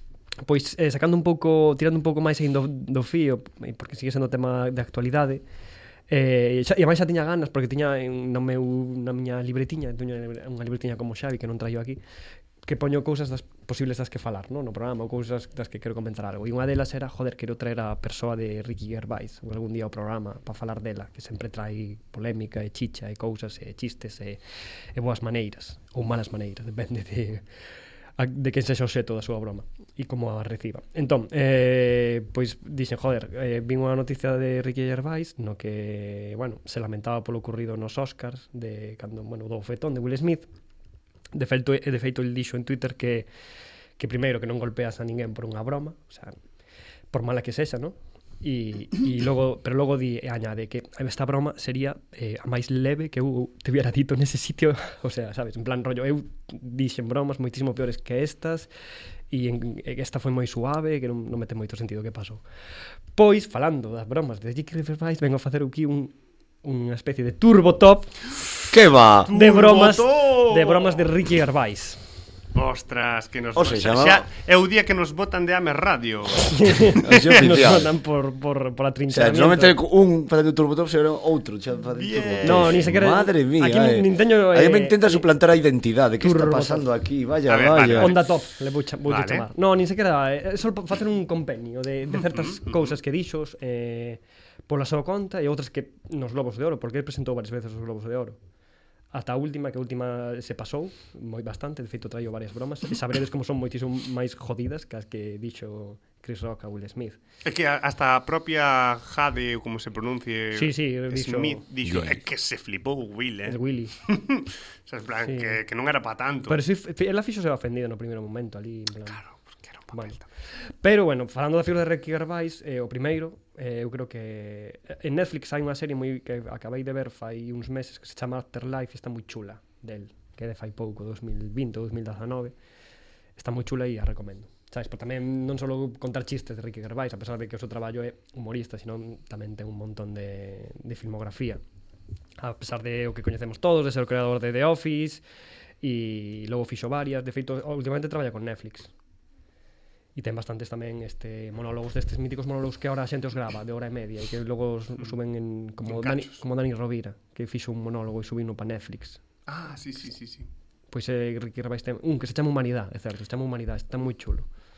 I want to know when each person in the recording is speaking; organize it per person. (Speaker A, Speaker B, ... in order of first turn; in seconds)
Speaker A: 0.4-5.4, 6.1-12.0, 12.6-24.4, 24.9-27.4, 28.2-40.5, 41.3-43.3, 44.0-46.3, 47.1-58.7, 59.3-62.4, 63.1-68.2, 69.3-72.0, 76.5-79.8, 82.4-85.3, 86.2-86.8, 88.0-98.4, 99.1-107.2, 110.5-111.6, 113.5-113.9, 115.2-115.6, 116.5-119.2, 119.9-132.5, 133.3-141.6, 142.4-145.2, 145.8-148.9, 150.2-159.2, 160.9-164.5
Speaker B: 68.7-69.4, 73.5-74.2, 77.0-77.9, 79.1-88.1, 111.8-112.2
Speaker C: 69.3-71.0, 72.5-77.3, 81.9-82.8, 87.5-88.3, 89.1-89.5, 92.1-92.9, 107.4-116.6, 119.1-120.2, 155.8-156.4, 159.5-160.5